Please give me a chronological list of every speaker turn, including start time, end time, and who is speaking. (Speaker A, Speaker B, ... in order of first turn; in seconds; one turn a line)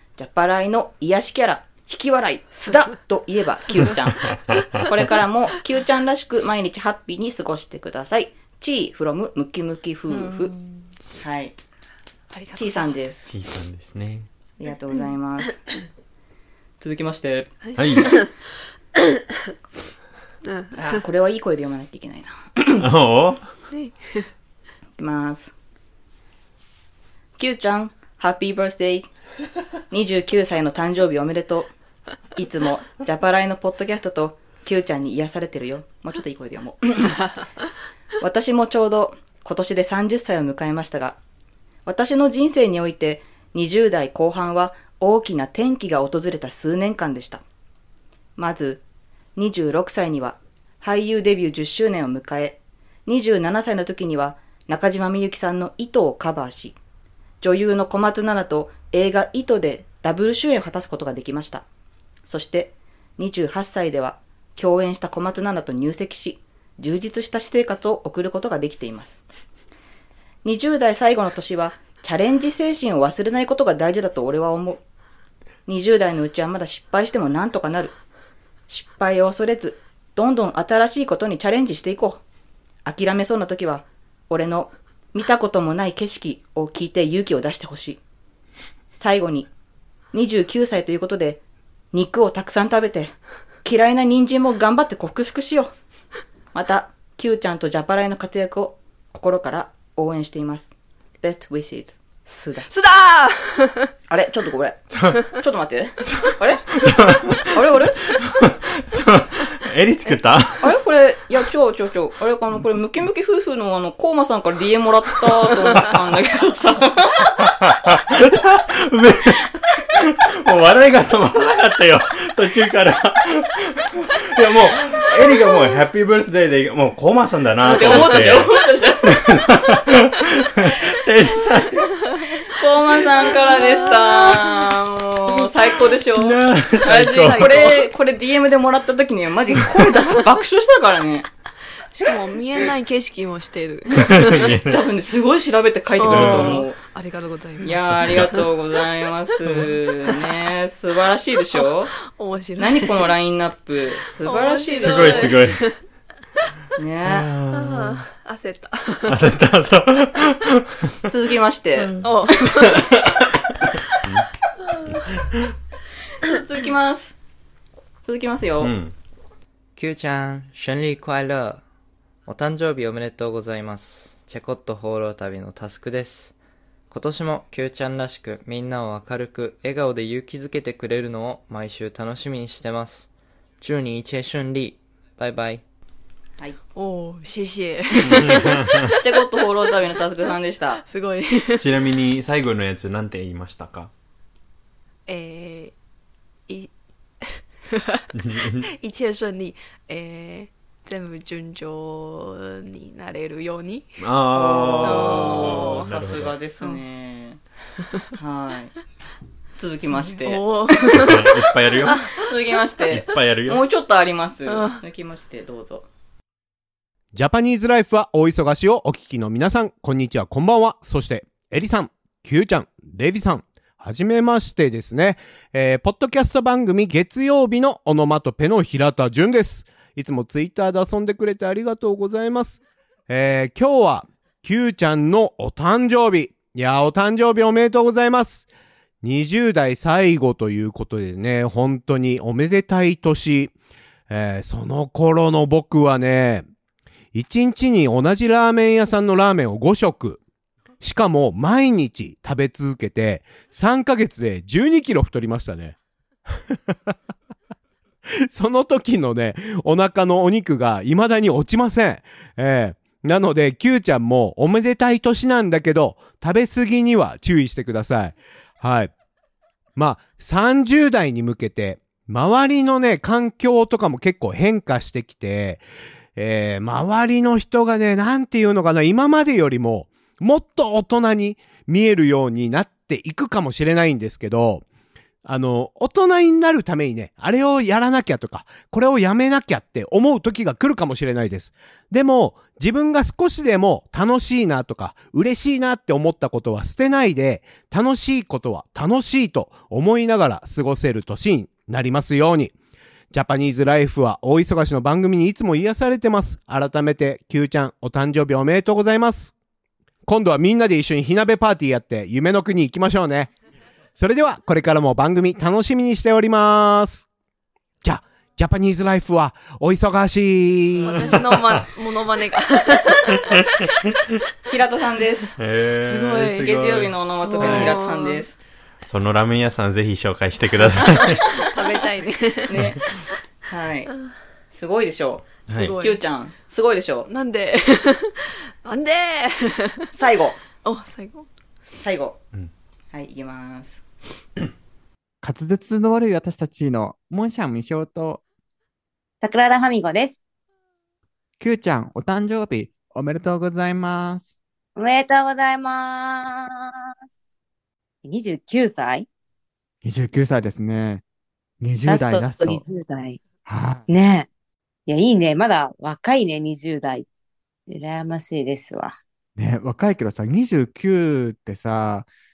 Speaker A: 0.2-10.5
Speaker A: 11.2-11.6
Speaker B: 12.3-12.9
Speaker A: 12.6-13.2
Speaker C: 13.3-14.3
Speaker A: 14.6-15.6
Speaker A: 16.8-17.5
Speaker B: 17.7-18.3
Speaker C: 17.8-18.1
Speaker B: 20.4-21.0
Speaker A: 20.7-22.9
Speaker C: 22.8-23.5
Speaker B: 23.7-24.3
Speaker A: 25.0-25.5
Speaker A: 27.4-29.1
Speaker A: 29.9-31.7
Speaker A: 32.4-37.2
Speaker A: 38.2-41.2
Speaker A: 41.9-47.4
Speaker A: 48.4-48.8
Speaker A: 49.4-56.8
Speaker A: 57.4-61.6
Speaker A: 62.3-69.2
Speaker A: 70.4-74.8
Speaker A: 75.7-78.0
Speaker A: 78.7-82.2
Speaker A: 82.8-88.0
Speaker A: 88.9-89.5
Speaker A: 90.1-91.4
Speaker A: 91.9-95.7
Speaker A: 96.5-100.7
Speaker A: 101.2-102.7
Speaker B: 102.7-103.9
Speaker A: 104.1-108.2
Speaker C: 104.9-105.2
Speaker C: 106.8-107.5
Speaker C: 108.2-110.7
Speaker A: 110.6-117.5
Speaker C: 117.6-132.0
Speaker A: 127.6-129.4
Speaker A: 132.5-141.3
Speaker B: 133.3-134.4
Speaker C: 136.1-137.7
Speaker B: 136.9-137.9
Speaker B: 142.0-144.5
Speaker C: 144.0-144.9
Speaker A: 144.6-146.8
Speaker B: 146.0-148.4
Speaker C: 146.1-146.7
Speaker A: 147.6-151.9
Speaker C: 147.7-148.4
Speaker B: 151.6-153.1
Speaker A: 152.6-155.4
Speaker B: 154.2-155.8
Speaker C: 154.7-155.6
Speaker A: 156.8-157.3
Speaker C: 157.0-158.1
Speaker B: 157.5-159.2
Speaker C: 159.1-161.0
Speaker A: 161.1-161.9
Speaker C: 162.0-163.2
Speaker B: 162.0-162.9
Speaker C: 164.9-165.2
Speaker A: 166.2-167.2
Speaker A: 168.1-168.7
Speaker C: 168.6-168.9
Speaker D: 169.8-171.6
Speaker D: 172.3-176.3
Speaker D: 176.9-183.1
Speaker D: 183.6-185.6
Speaker B: 186.8-189.0
Speaker C: 188.0-188.8
Speaker A: 189.0-190.8
Speaker B: 190.8-191.7
Speaker C: 191.6-193.9
Speaker B: 195.1-195.8
Speaker B: 197.2-198.1
Speaker C: 198.2-198.7
Speaker B: 198.6-204.0
Speaker C: 204.0-206.4
Speaker A: 204.3-207.4
Speaker B: 204.8-205.9
Speaker A: 208.2-208.7
Speaker A: 209.6-211.3
Speaker B: 209.8-211.3
Speaker C: 210.9-212.2
Speaker B: 211.8-212.3
Speaker A: 212.2-215.9
Speaker C: 212.9-213.6
Speaker B: 214.5-214.8
Speaker E: 217.1-238.5
Speaker E: 239.0-243.5
Speaker E: 244.1-246.5
Speaker E: 247.1-250.2
Speaker E: 250.8-255.8
Speaker E: 258.2-268.9
Speaker E: 269.8-275.6
Speaker E: 276.2-284.6
Speaker E: 285.2-302.5
Speaker E: 303.1-309.4
Speaker E: 310.1-313.3
Speaker E: 314.0-317.1
Speaker E: 317.8-321.4
Speaker B: 320.8-323.3
Speaker C: 320.9-321.6
Speaker C: 323.1-323.4
Speaker A: 324.5-325.4
Speaker C: 325.4-327.8
Speaker B: 325.8-326.5
Speaker A: 326.2-328.4
Speaker B: 327.2-328.3
Speaker C: 328.9-331.4
Speaker B: 330.7-332.6
Speaker A: 332.5-332.9
Speaker A: 333.5-333.9
Speaker A: 334.5-337.1
Speaker C: 335.5-335.8
Speaker B: 335.5-336.0
Speaker B: 337.1-339.9
Speaker A: 339.9-340.4
Speaker B: 340.6-341.3
Speaker A: 341.8-342.2
Speaker A: 342.9-343.8
Speaker F: 345.2-348.2
Speaker G: 349.2-350.2
Speaker F: 351.4-354.3
Speaker G: 354.8-356.8
Speaker G: 358.0-359.1
Speaker F: 359.8-361.0
Speaker F: 361.6-362.6
Speaker G: 361.9-363.2
Speaker F: 363.4-363.9
Speaker G: 363.9-364.3
Speaker G: 364.9-367.1
Speaker G: 367.7-369.0
Speaker F: 369.4-372.1